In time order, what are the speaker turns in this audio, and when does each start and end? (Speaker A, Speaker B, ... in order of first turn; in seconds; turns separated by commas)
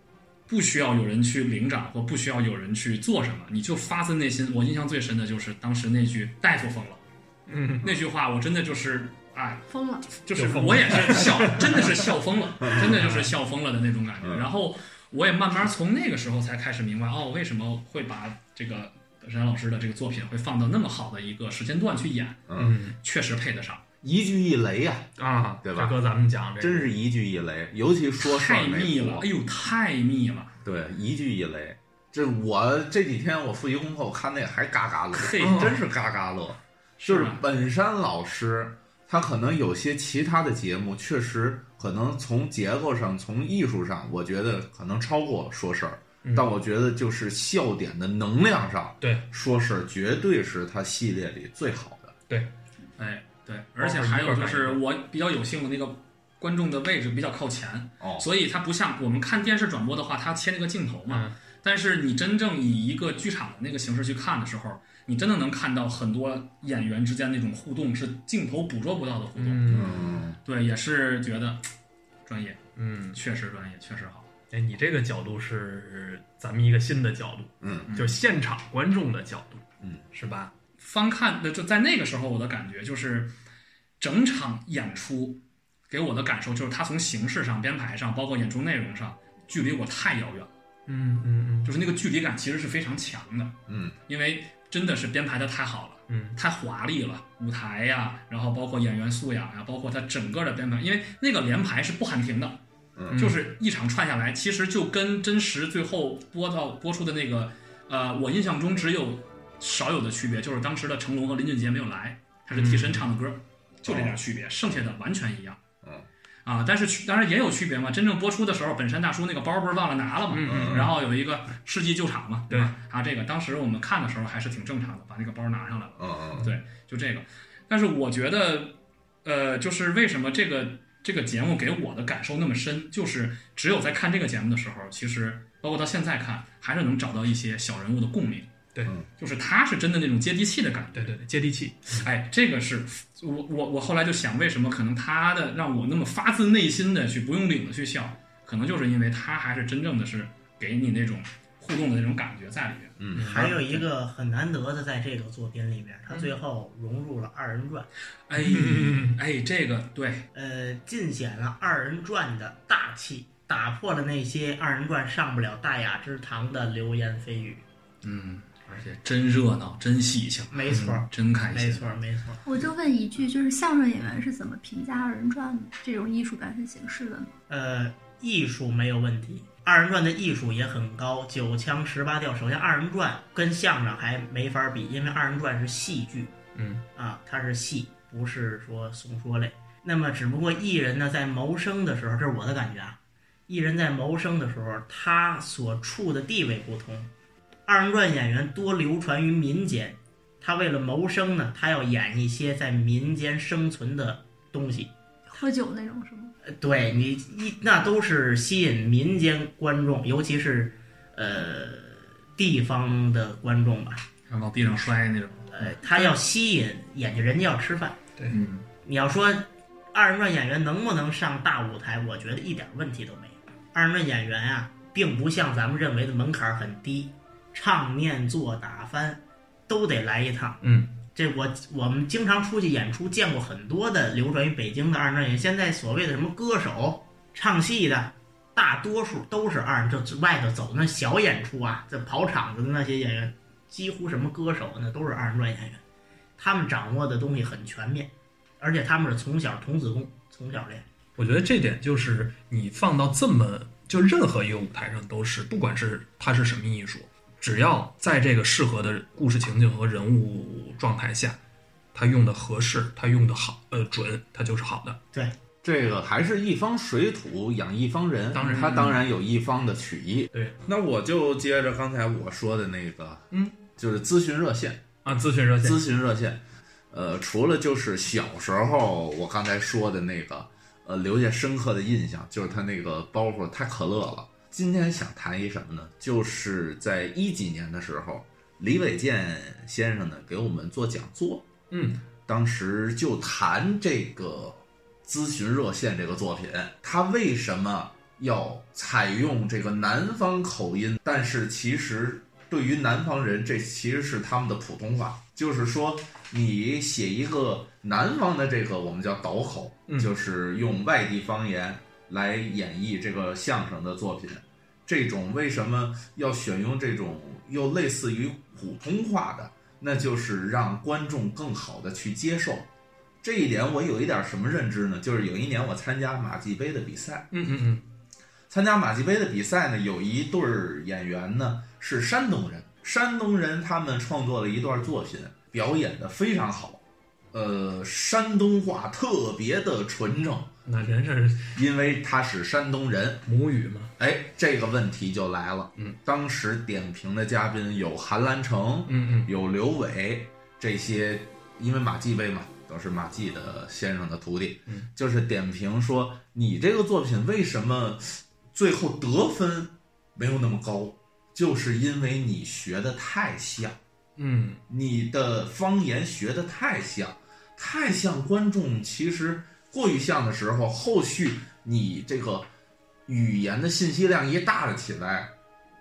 Speaker A: 0.5-7.0, Speaker B: 7.5-7.9, Speaker A: 7.8-23.8, Speaker C: 9.7-10.1, Speaker B: 10.3-12.1, Speaker D: 12.6-13.0, Speaker B: 12.7-13.3, Speaker D: 14.2-14.5, Speaker D: 22.5-22.8, Speaker B: 22.6-23.0, Speaker D: 24.0-25.1, Speaker B: 25.2-26.9, Speaker D: 25.6-26.0, Speaker D: 26.6-29.3, Speaker A: 28.2-30.5, Speaker D: 30.6-52.1, Speaker A: 35.1-35.7, Speaker B: 35.4-35.8, Speaker A: 37.0-37.4, Speaker B: 46.2-46.5, Speaker B: 49.0-49.3, Speaker A: 53.0-71.7, Speaker B: 53.8-54.8, Speaker D: 58.0-58.3, Speaker B: 61.1-61.4, Speaker B: 69.4-70.0, Speaker D: 69.7-70.4, Speaker A: 72.3-72.6, Speaker B: 72.8-73.2, Speaker A: 73.1-74.3, Speaker B: 74.5-80.5, Speaker D: 77.6-77.9, Speaker A: 77.9-78.2, Speaker A: 80.8-83.3, Speaker A: 84.0-90.5, Speaker B: 90.9-91.7, Speaker A: 91.7-93.6, Speaker D: 93.7-94.0, Speaker A: 94.1-102.6, Speaker B: 96.1-96.4, Speaker D: 103.0-103.2, Speaker B: 103.1-103.5, Speaker A: 103.1-115.6, Speaker B: 112.5-113.1, Speaker D: 113.8-114.2, Speaker A: 116.5-138.5, Speaker B: 120.3-120.9, Speaker D: 120.5-121.0, Speaker D: 126.0-126.5, Speaker A: 139.2-141.2, Speaker B: 140.9-142.1, Speaker A: 141.9-153.5, Speaker D: 153.0-153.4, Speaker B: 153.2-153.8, Speaker E: 153.2-157.9, Speaker A: 158.3-160.3, Speaker B: 158.3-159.2, Speaker E: 160.3-167.7, Speaker A: 168.0-171.9, Speaker E: 170.5-172.5, Speaker B: 170.7-171.0, Speaker C: 172.5-177.3, Speaker E: 177.5-186.3, Speaker B: 186.6-186.8, Speaker E: 186.9-197.1, Speaker E: 197.7-204.9, Speaker C: 205.3-206.3, Speaker E: 206.4-214.1, Speaker A: 214.3-215.5, Speaker E: 215.5-218.0, Speaker A: 218.3-218.7, Speaker E: 218.8-230.6, Speaker B: 230.6-231.0, Speaker E: 231.1-245.8, Speaker E: 246.4-250.9, Speaker B: 251.2-261.4, Speaker B: 261.9-265.0, Speaker D: 265.6-274.9, Speaker B: 268.3-269.0, Speaker B: 275.1-275.8, Speaker D: 275.6-291.5, Speaker B: 291.7-292.0, Speaker D: 292.3-322.7, Speaker B: 309.9-310.1, Speaker D: 323.2-327.3, Speaker B: 327.3-327.9, Speaker D: 328.5-340.5, Speaker B: 340.7-341.6, Speaker D: 341.5-343.3, Speaker B: 343.3-343.9, Speaker D: 344.0-363.8, Speaker B: 348.9-349.3, Speaker B: 364.2-364.6, Speaker D: 364.7-372.5, Speaker D: 373.1-375.3